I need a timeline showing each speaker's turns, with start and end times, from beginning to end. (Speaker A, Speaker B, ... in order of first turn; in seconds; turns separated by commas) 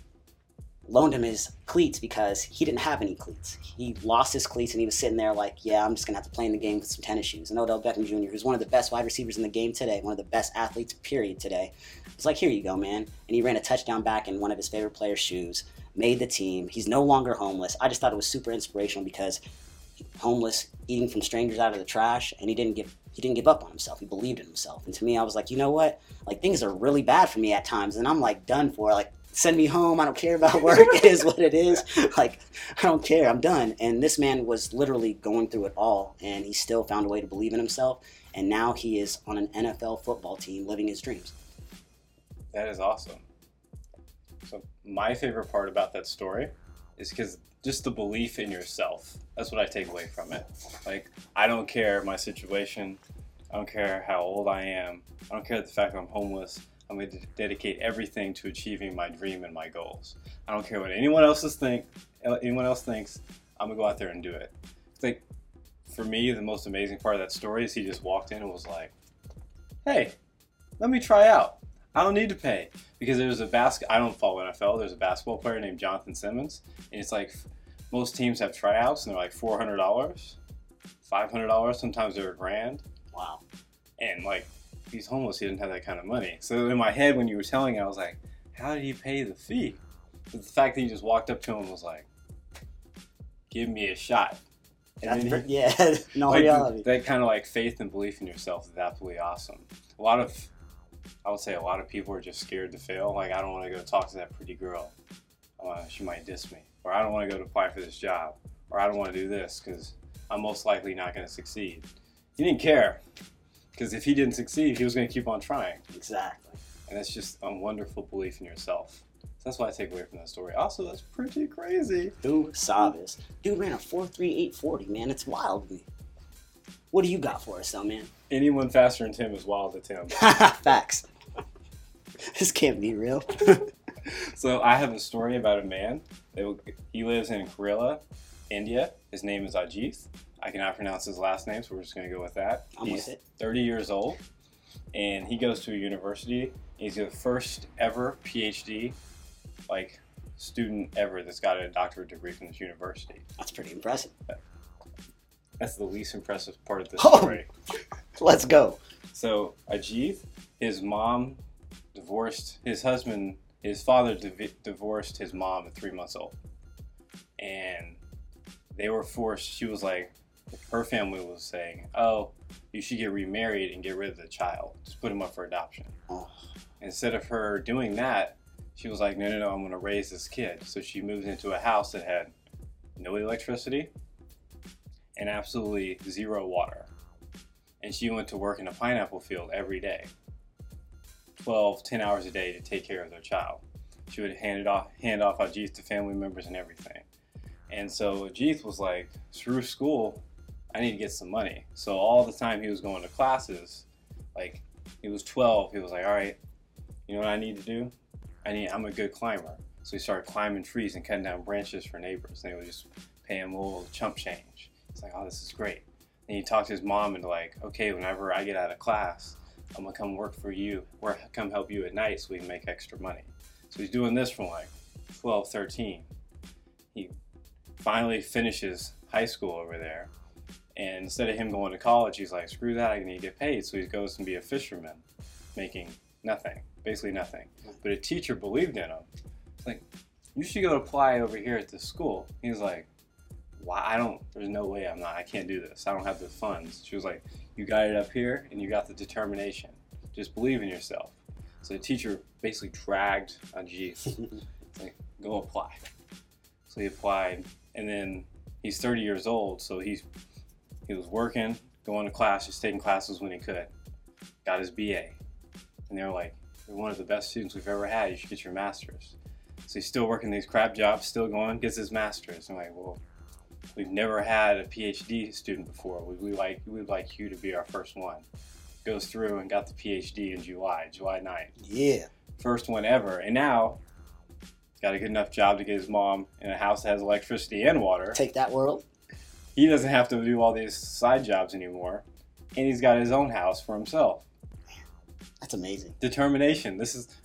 Speaker A: 0.8-19.4, Speaker A: 20.2-41.3, Speaker B: 42.5-43.2, Speaker B: 44.4-53.0, Speaker B: 53.5-65.2, Speaker B: 65.9-68.9, Speaker B: 69.8-70.1, Speaker B: 70.8-80.4, Speaker B: 81.0-82.8, Speaker A: 83.1-83.4, Speaker B: 84.0-89.8, Speaker B: 90.3-92.0, Speaker B: 93.5-94.4, Speaker B: 95.0-95.5, Speaker A: 95.0-96.9, Speaker B: 96.2-100.5, Speaker B: 101.2-104.9, Speaker B: 105.6-111.8, Speaker B: 112.4-113.0, Speaker B: 113.7-115.8, Speaker A: 115.9-116.6, Speaker B: 116.9-122.1, Speaker A: 122.2-125.8, Speaker A: 126.9-128.1, Speaker B: 128.3-130.2, Speaker A: 130.1-131.1, Speaker A: 132.3-133.7, Speaker B: 134.0-144.2, Speaker A: 142.8-143.2, Speaker B: 144.9-148.9, Speaker B: 149.7-153.2, Speaker A: 153.4-154.1, Speaker B: 155.6-157.5, Speaker A: 157.0-157.4, Speaker A: 158.2-158.8, Speaker B: 159.1-161.4, Speaker B: 161.9-166.3, Speaker B: 167.4-168.0, Speaker B: 168.7-175.9, Speaker B: 176.8-182.3, Speaker B: 183.0-183.9, Speaker B: 185.2-186.9, Speaker B: 187.8-190.1, Speaker B: 191.4-197.1, Speaker B: 197.7-200.2, Speaker B: 200.7-206.4, Speaker B: 207.1-207.9, Speaker B: 208.4-226.1, Speaker B: 227.8-230.1, Speaker B: 230.8-235.0, Speaker B: 235.6-239.1, Speaker B: 240.3-242.9, Speaker B: 243.6-255.8, Speaker B: 256.7-260.0, Speaker B: 260.9-263.7, Speaker B: 264.4-265.2, Speaker B: 265.9-273.0, Speaker B: 273.7-278.2, Speaker B: 278.8-281.5, Speaker A: 281.6-282.1, Speaker B: 282.4-283.8, Speaker B: 284.8-288.2, Speaker A: 288.1-288.8, Speaker B: 289.5-292.0, Speaker B: 292.5-294.2, Speaker A: 295.4-295.9, Speaker B: 296.0-297.1